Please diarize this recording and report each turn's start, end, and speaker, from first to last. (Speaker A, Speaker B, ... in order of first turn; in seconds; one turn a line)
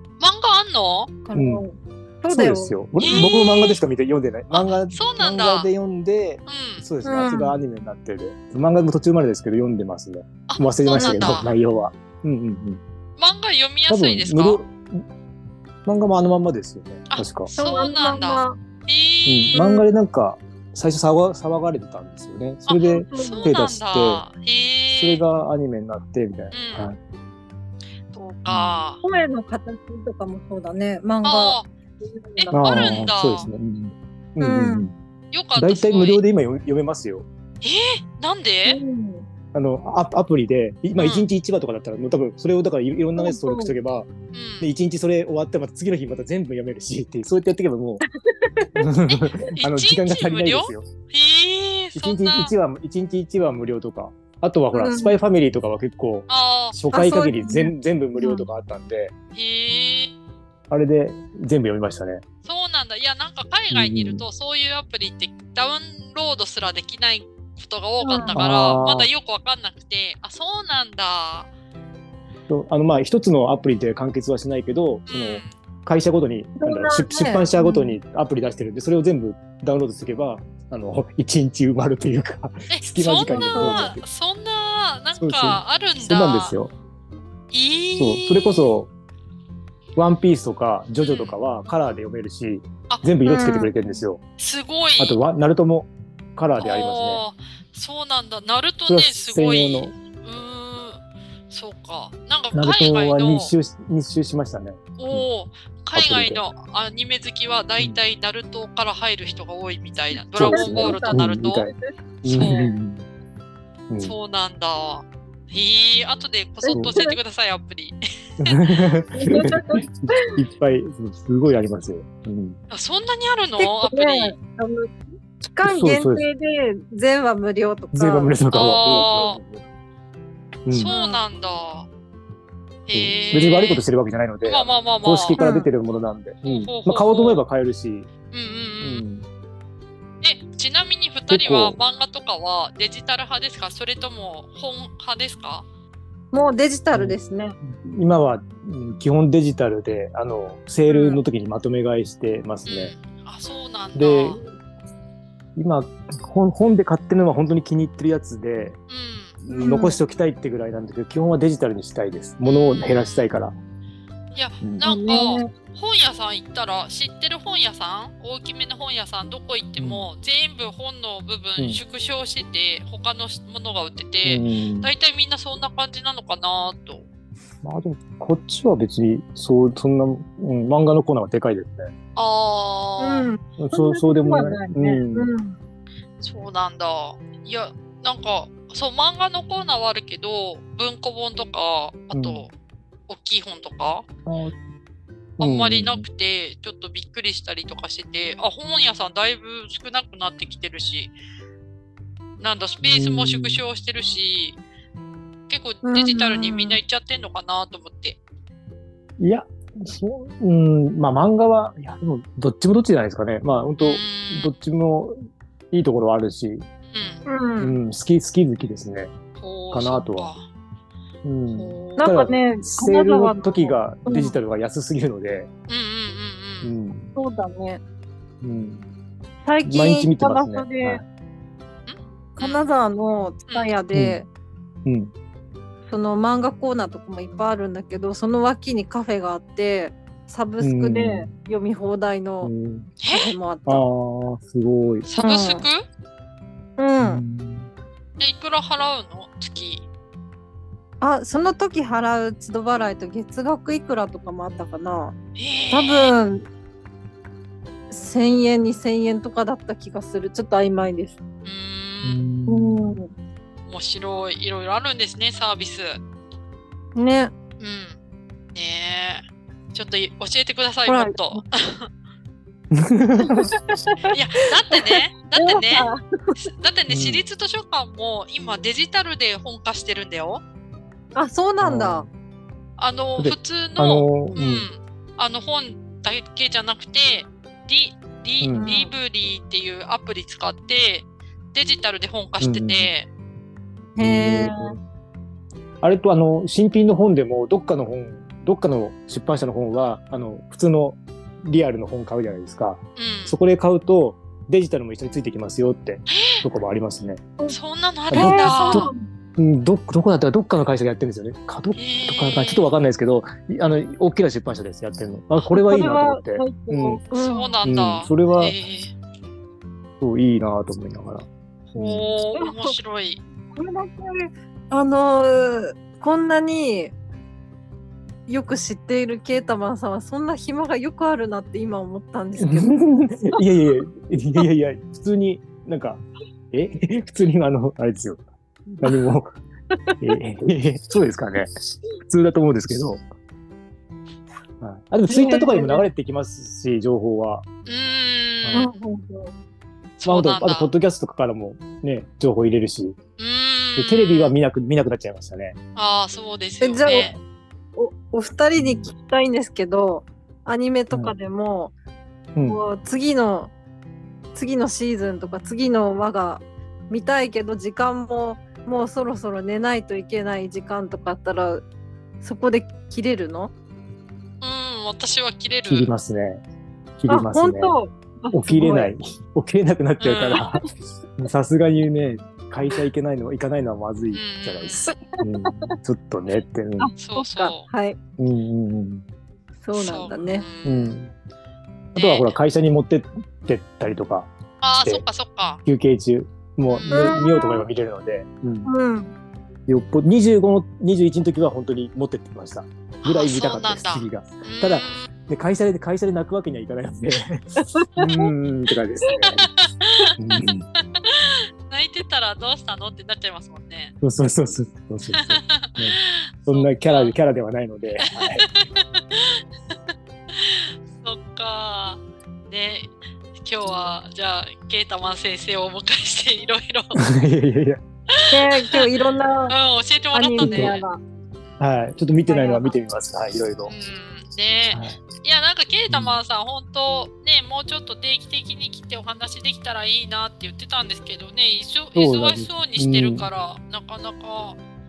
Speaker A: 0.2-1.1
Speaker B: 1.2-3.3
Speaker C: 1.3-1.6
Speaker C: 2.3-12.8
Speaker A: 3.0-3.8
Speaker A: 4.5-5.7
Speaker A: 6.5-6.8
Speaker B: 7.0-7.5
Speaker A: 10.5-11.5
Speaker B: 10.9-11.3
Speaker A: 13.2-14.6
Speaker C: 13.9-15.0
Speaker C: 15.8-17.5
Speaker A: 17.1-19.6
Speaker B: 17.5-18.6
Speaker C: 19.2-24.2
Speaker B: 19.5-19.8
Speaker A: 22.7-25.2
Speaker B: 22.8-23.5
Speaker C: 24.9-27.0
Speaker A: 26.5-26.9
Speaker A: 28.1-29.0
Speaker C: 28.5-28.8
Speaker B: 29.0-33.1
Speaker A: 31.2-31.7
Speaker A: 32.4-33.5
Speaker C: 32.5-34.9
Speaker B: 34.4-34.9
Speaker A: 35.3-36.2
Speaker C: 35.5-37.2
Speaker A: 37.6-38.8
Speaker B: 38.6-39.3
Speaker C: 39.5-44.1
Speaker A: 41.0-41.3
Speaker B: 43.2-43.7
Speaker A: 44.3-44.7
Speaker C: 44.6-48.0
Speaker B: 48.3-48.8
Speaker C: 48.8-50.9
Speaker A: 49.1-52.5
Speaker C: 51.9-59.1
Speaker B: 54.7-55.2
Speaker A: 56.3-56.8
Speaker B: 56.9-58.5
Speaker A: 59.3-60.1
Speaker C: 60.7-62.2
Speaker A: 62.4-71.5
Speaker C: 63.7-64.2
Speaker B: 68.0-68.4
Speaker C: 68.3-69.1
Speaker C: 72.5-84.0
Speaker A: 75.1-75.5
Speaker B: 76.6-78.0
Speaker A: 82.7-86.5
Speaker B: 83.3-83.9
Speaker C: 85.2-86.7
Speaker A: 87.5-88.8
Speaker C: 88.0-88.9
Speaker C: 90.0-94.2
Speaker A: 91.0-91.4
Speaker B: 93.2-93.7
Speaker A: 94.4-95.2
Speaker C: 95.0-97.2
Speaker A: 96.6-103.5
Speaker C: 98.9-99.9
Speaker C: 102.5-105.2
Speaker A: 105.0-111.7
Speaker C: 105.9-106.4
Speaker C: 110.3-111.7
Speaker B: 110.5-111.2
Speaker C: 112.2-113.0
Speaker A: 112.2-112.7
Speaker C: 113.9-114.1
Speaker A: 114.0-118.8
Speaker B: 116.6-117.2
Speaker C: 118.4-122.6
Speaker B: 119.2-120.3
Speaker A: 122.7-124.3
Speaker B: 123.6-128.4
Speaker C: 125.6-126.2
Speaker C: 127.9-129.6
Speaker A: 128.5-129.4
Speaker C: 130.7-130.9
Speaker A: 130.7-131.9
Speaker B: 130.9-131.2
Speaker A: 132.9-133.8
Speaker C: 132.9-138.1
Speaker A: 134.4-135.4
Speaker B: 135.4-135.7
Speaker A: 136.4-137.4
Speaker A: 138.3-139.0
Speaker C: 138.8-139.2
Speaker A: 140.2-145.6
Speaker C: 141.3-141.8
Speaker B: 146.3-147.5
Speaker C: 146.9-152.9
Speaker B: 150.9-151.2
Speaker A: 152.7-154.4
Speaker C: 153.9-154.4
Speaker C: 155.6-158.8
Speaker A: 158.9-159.4
Speaker C: 159.4-163.6
Speaker B: 159.5-159.9
Speaker A: 162.4-163.3
Speaker A: 164.3-177.0
Speaker B: 164.8-165.5
Speaker C: 169.8-170.1
Speaker C: 174.2-174.9
Speaker C: 177.6-181.9
Speaker A: 182.2-183.3
Speaker B: 183.0-185.6
Speaker C: 183.6-185.3
Speaker A: 186.2-192.5
Speaker C: 192.1-192.4
Speaker A: 193.1-194.1
Speaker C: 194.2-194.6
Speaker C: 195.4-196.0
Speaker A: 195.4-201.1
Speaker A: 202.4-204.6
Speaker C: 202.8-203.6
Speaker A: 205.5-208.2
Speaker B: 205.8-206.8
Speaker C: 209.2-215.1
Speaker A: 213.8-214.5
Speaker C: 215.7-216.7
Speaker A: 216.9-217.2
Speaker B: 217.2-217.8
Speaker C: 217.6-219.1
Speaker A: 219.4-220.5
Speaker C: 219.7-220.3
Speaker C: 221.2-225.5
Speaker A: 221.5-222.1
Speaker B: 222.0-224.4
Speaker A: 225.7-226.7
Speaker C: 226.6-227.1
Speaker B: 227.1-227.8
Speaker C: 228.4-228.9
Speaker B: 229.4-231.0
Speaker C: 229.6-231.0
Speaker A: 231.9-232.7
Speaker B: 232.3-234.3
Speaker C: 233.9-234.2
Speaker C: 234.8-235.1
Speaker B: 235.9-242.5
Speaker C: 240.6-241.3
Speaker C: 242.4-242.9
Speaker A: 243.0-243.3
Speaker B: 243.1-243.8
Speaker C: 243.7-245.1
Speaker A: 245.1-245.8
Speaker B: 245.2-245.7
Speaker B: 246.8-247.2
Speaker C: 247.0-247.7
Speaker A: 248.2-249.8
Speaker B: 251.0-255.2
Speaker A: 255.3-256.1
Speaker B: 255.7-256.4
Speaker B: 257.9-261.2
Speaker A: 261.4-262.2
Speaker C: 262.0-263.0
Speaker B: 262.5-263.1
Speaker A: 263.7-266.0
Speaker B: 266.9-267.3
Speaker A: 267.6-267.9
Speaker A: 268.5-271.9
Speaker B: 270.9-271.4
Speaker C: 272.7-273.5
Speaker B: 273.2-274.1
Speaker A: 274.1-275.9
Speaker B: 274.7-276.4
Speaker A: 276.4-280.4
Speaker C: 276.9-277.2
Speaker B: 281.1-282.1
Speaker C: 281.6-282.1
Speaker A: 282.8-293.1
Speaker C: 283.2-284.7
Speaker C: 288.4-288.7
Speaker B: 288.5-288.9
Speaker C: 292.4-292.9
Speaker B: 293.9-294.8
Speaker C: 294.0-294.8
Speaker C: 295.8-307.2
Speaker A: 303.0-303.4
Speaker A: 306.1-306.4
Speaker A: 307.5-308.9
Speaker C: 308.1-317.0
Speaker B: 308.1-309.0
Speaker A: 311.8-312.7
Speaker B: 315.5-317.5
Speaker A: 317.1-318.9
Speaker C: 317.6-318.5
Speaker C: 320.0-322.1
Speaker A: 321.7-323.2
Speaker B: 322.3-322.7
Speaker B: 323.5-326.9
Speaker B: 328.3-332.7
Speaker C: 332.4-338.2
Speaker C: 338.7-339.3
Speaker C: 340.0-341.5
Speaker C: 342.0-343.0
Speaker C: 344.6-347.4
Speaker B: 345.1-345.8
Speaker A: 347.6-348.7
Speaker C: 348.4-348.7
Speaker B: 348.5-349.3
Speaker A: 350.0-350.7
Speaker C: 350.0-353.0
Speaker A: 353.2-354.3
Speaker C: 353.7-355.6
Speaker A: 355.8-357.1
Speaker B: 356.6-357.1
Speaker B: 357.8-361.7
Speaker C: 358.5-358.9
Speaker C: 362.3-362.6
Speaker B: 362.4-363.5
Speaker B: 364.3-371.6
Speaker B: 372.2-373.5
Speaker A: 374.4-375.9
Speaker C: 375.7-376.4
Speaker C: 377.0-377.8
Speaker B: 377.1-378.9
Speaker C: 378.3-380.6
Speaker A: 380.0-380.4
Speaker C: 381.2-386.9
Speaker A: 384.1-384.9
Speaker B: 384.8-385.7
Speaker B: 386.8-388.0
Speaker A: 387.0-387.7
Speaker C: 388.2-389.0
Speaker B: 389.6-390.4
Speaker A: 389.7-391.0
Speaker C: 390.6-391.1
Speaker C: 391.9-395.0
Speaker A: 391.9-392.3
Speaker A: 394.6-395.6
Speaker C: 395.6-398.7
Speaker A: 396.7-397.2
Speaker B: 396.9-397.6
Speaker B: 398.6-399.1
Speaker C: 399.7-409.5
Speaker A: 403.0-405.1
Speaker B: 407.7-408.3
Speaker A: 409.8-410.1
Speaker C: 410.2-410.6
Speaker A: 410.8-413.9
Speaker C: 414.0-418.4
Speaker A: 415.1-417.1
Speaker A: 418.0-419.4
Speaker A: 420.3-427.0
Speaker C: 427.0-427.8
Speaker A: 428.1-428.9
Speaker B: 428.3-429.6
Speaker A: 429.5-430.8
Speaker B: 430.1-431.0
Speaker C: 430.4-430.7
Speaker C: 431.6-433.7
Speaker B: 432.3-432.8
Speaker A: 433.7-444.6
Speaker C: 434.7-435.0
Speaker C: 435.9-436.2
Speaker C: 441.9-443.3